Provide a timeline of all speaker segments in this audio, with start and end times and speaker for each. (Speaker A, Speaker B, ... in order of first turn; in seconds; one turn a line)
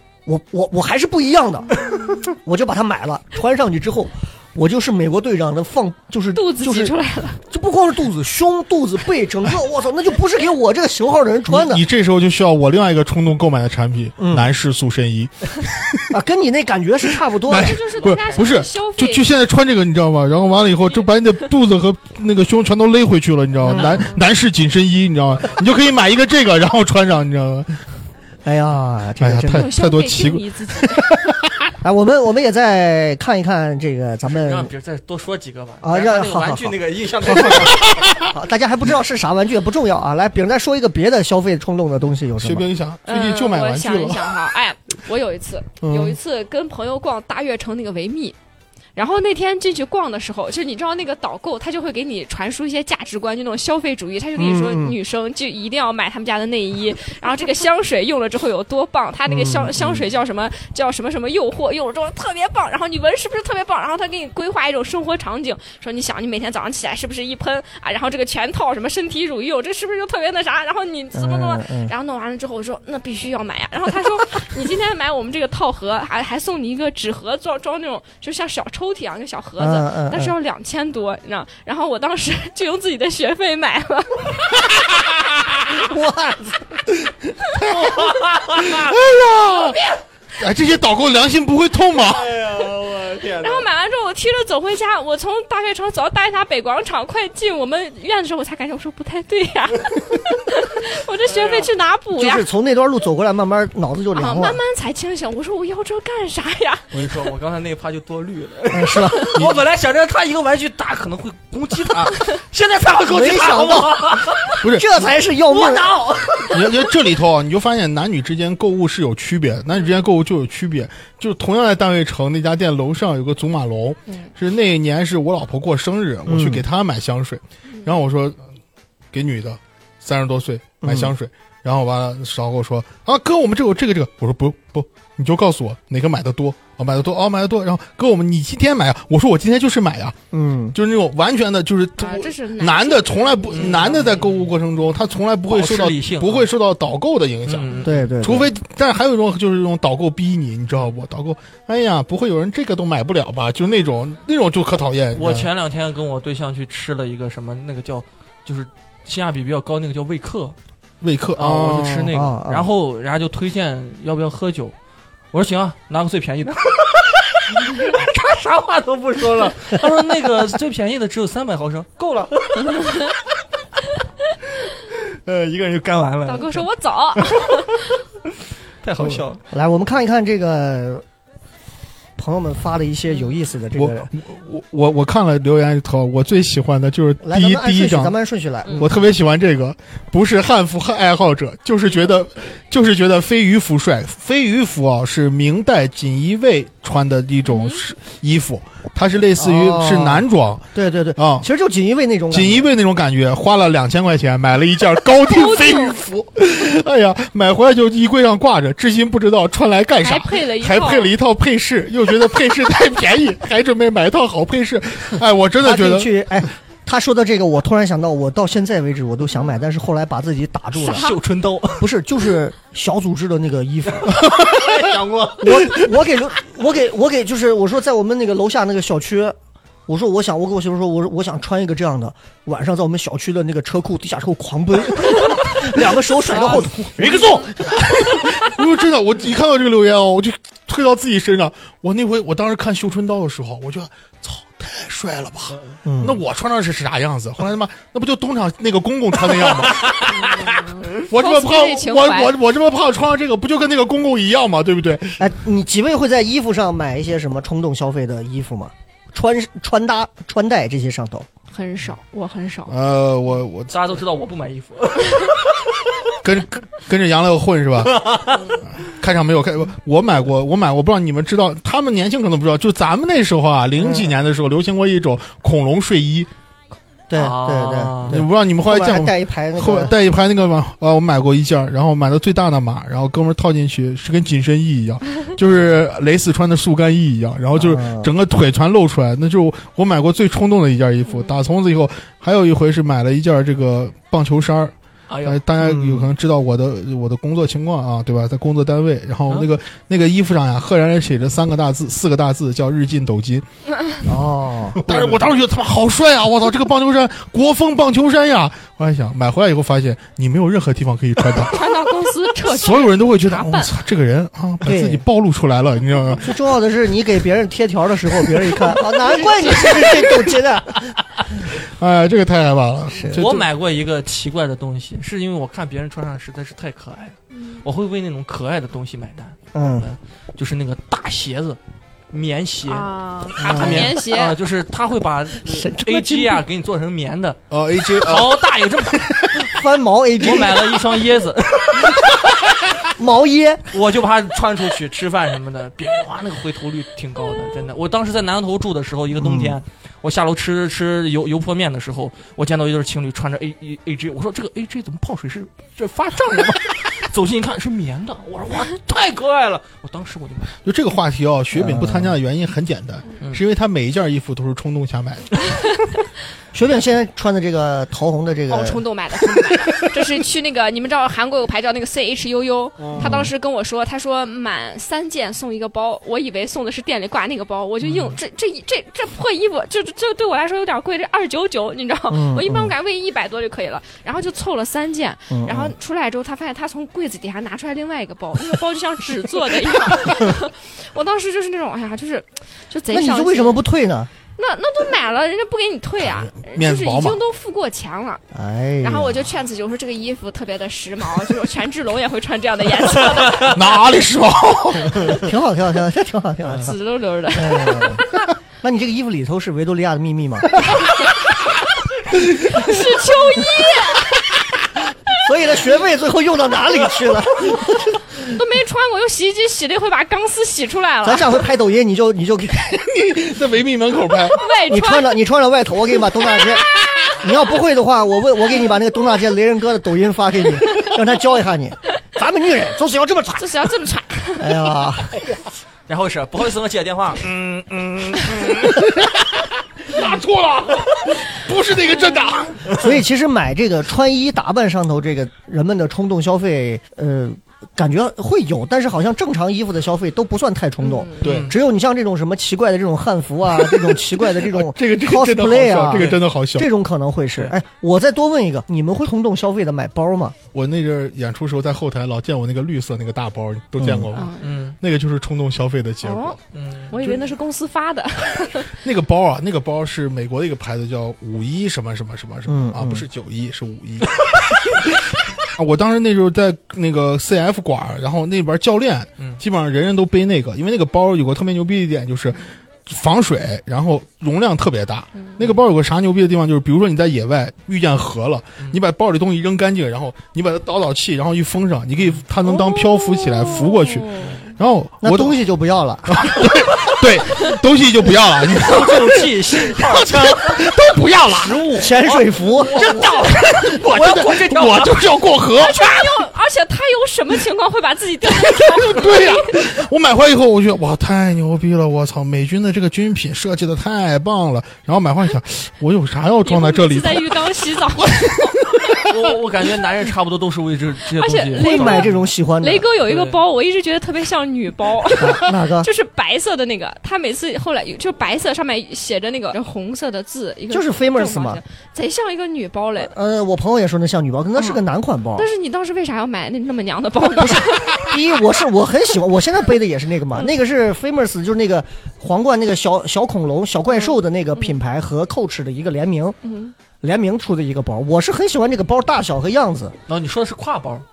Speaker A: 0.3-6.9
Speaker B: 6.3-7.4
Speaker A: 7.5-11.8
Speaker C: 11.5-16.1
Speaker A: 14.2-14.5
Speaker A: 16.1-17.8
Speaker C: 17.5-27.8
Speaker B: 17.5-19.3
Speaker A: 23.6-24.1
Speaker B: 23.6-24.2
Speaker A: 28.4-29.7
Speaker C: 29.2-31.5
Speaker B: 29.5-31.1
Speaker A: 31.8-34.7
Speaker D: 34.3-38.0
Speaker A: 35.8-42.7
Speaker C: 37.6-38.3
Speaker C: 42.4-44.4
Speaker B: 43.1-48.4
Speaker A: 45.9-46.1
Speaker B: 49.0-84.7
Speaker A: 54.4-55.0
Speaker A: 59.3-60.1
Speaker A: 71.1-71.9
Speaker A: 79.6-80.3
Speaker A: 85.7-87.0
Speaker D: 87.6-88.9
Speaker C: 87.6-89.8
Speaker C: 90.4-92.3
Speaker D: 92.0-93.7
Speaker B: 93.4-102.5
Speaker D: 101.3-101.7
Speaker A: 102.2-104.6
Speaker B: 104.1-106.9
Speaker D: 106.9-114.6
Speaker A: 108.7-109.3
Speaker A: 113.1-116.0
Speaker C: 114.6-115.0
Speaker D: 115.5-116.7
Speaker C: 116.5-128.4
Speaker A: 126.3-126.7
Speaker C: 129.1-140.2
Speaker A: 130.8-131.1
Speaker A: 140.3-140.8
Speaker C: 140.7-155.5
Speaker B: 142.0-144.2
Speaker D: 143.5-144.5
Speaker D: 145.5-146.5
Speaker D: 147.5-148.1
Speaker A: 147.8-148.5
Speaker D: 155.1-160.6
Speaker C: 161.0-162.1
Speaker D: 161.4-164.7
Speaker A: 162.1-162.7
Speaker D: 165.3-173.0
Speaker D: 175.2-177.6
Speaker B: 176.3-177.9
Speaker D: 178.8-179.4
Speaker A: 179.5-181.0
Speaker A: 182.2-184.1
Speaker C: 183.8-188.1
Speaker A: 187.2-189.0
Speaker C: 188.7-200.7
Speaker B: 197.4-197.8
Speaker A: 199.4-202.7
Speaker C: 201.2-201.5
Speaker C: 202.3-216.1
Speaker B: 205.2-206.0
Speaker B: 210.0-211.1
Speaker A: 215.6-221.1
Speaker B: 220.8-221.2
Speaker D: 220.8-221.9
Speaker A: 221.8-224.2
Speaker D: 224.4-225.8
Speaker A: 225.4-229.4
Speaker A: 229.9-237.9
Speaker B: 236.4-237.5
Speaker C: 237.8-250.4
Speaker A: 245.8-246.2
Speaker B: 250.1-252.4
Speaker C: 251.0-255.3
Speaker A: 255.2-261.3
Speaker B: 261.5-262.7
Speaker C: 262.7-263.8
Speaker D: 263.7-265.4
Speaker C: 266.2-276.3
Speaker D: 267.9-268.5
Speaker A: 273.8-274.2
Speaker A: 277.1-280.0
Speaker D: 277.1-278.2
Speaker C: 278.1-294.7
Speaker A: 287.6-288.1
Speaker B: 291.1-291.4
Speaker D: 295.1-295.4
Speaker C: 295.2-303.4
Speaker A: 295.6-296.1
Speaker A: 304.1-305.2
Speaker C: 304.8-311.6
Speaker B: 311.4-313.7
Speaker C: 312.5-316.3
Speaker A: 314.6-315.0
Speaker A: 316.2-320.9
Speaker C: 321.5-323.5
Speaker A: 322.9-323.2
Speaker D: 323.1-331.6
Speaker A: 329.5-329.9
Speaker D: 332.1-339.5
Speaker B: 332.7-334.4
Speaker A: 333.5-333.8
Speaker A: 335.4-336.4
Speaker C: 337.5-338.4
Speaker A: 339.4-340.8
Speaker D: 340.2-342.1
Speaker A: 342.9-343.7
Speaker D: 343.7-360.5
Speaker A: 349.2-349.6
Speaker C: 360.6-365.5
Speaker A: 361.5-362.2
Speaker A: 366.5-368.8
Speaker B: 368.5-393.6
Speaker C: 372.8-373.2
Speaker A: 373.0-373.3
Speaker D: 377.8-378.2
Speaker A: 382.1-382.7
Speaker A: 385.3-385.8
Speaker A: 392.9-394.1
Speaker B: 394.4-398.2
Speaker C: 396.0-397.2
Speaker A: 398.3-399.2
Speaker B: 398.8-403.7
Speaker C: 403.4-405.3
Speaker A: 405.1-406.8
Speaker B: 406.6-408.0
Speaker A: 407.3-408.1
Speaker A: 408.6-410.7
Speaker B: 412.4-414.2
Speaker A: 415.2-418.2
Speaker B: 418.2-421.4
Speaker A: 421.0-422.8
Speaker C: 422.7-424.4
Speaker B: 424.3-425.1
Speaker A: 424.7-433.5
Speaker B: 433.4-434.6
Speaker A: 434.4-435.2
Speaker D: 435.9-438.7
Speaker C: 438.5-439.1
Speaker C: 439.9-442.9
Speaker A: 442.7-460.4
Speaker B: 450.8-451.2
Speaker D: 451.2-451.6
Speaker C: 451.2-451.5
Speaker C: 453.6-456.7
Speaker D: 455.9-456.2
Speaker C: 460.5-466.4
Speaker A: 463.8-464.1
Speaker B: 464.1-464.4
Speaker D: 464.4-464.8
Speaker B: 466.0-466.4
Speaker D: 466.5-467.0
Speaker B: 466.9-468.7
Speaker C: 468.8-474.8
Speaker A: 472.5-473.1
Speaker C: 475.5-495.4
Speaker B: 492.4-494.5
Speaker A: 495.0-496.4
Speaker C: 496.1-501.7
Speaker D: 498.6-500.7
Speaker D: 501.3-505.2
Speaker A: 501.8-502.9
Speaker C: 502.8-506.1
Speaker B: 505.6-509.5
Speaker C: 508.5-517.4
Speaker B: 516.4-518.8
Speaker D: 519.1-522.2
Speaker B: 521.1-533.1
Speaker A: 521.5-522.9
Speaker D: 523.0-523.4
Speaker A: 525.2-525.9
Speaker A: 530.7-531.6
Speaker A: 533.0-535.5
Speaker B: 535.4-538.1
Speaker A: 537.4-546.4
Speaker B: 544.0-544.8
Speaker B: 546.4-546.7
Speaker A: 547.0-550.0
Speaker D: 550.1-551.0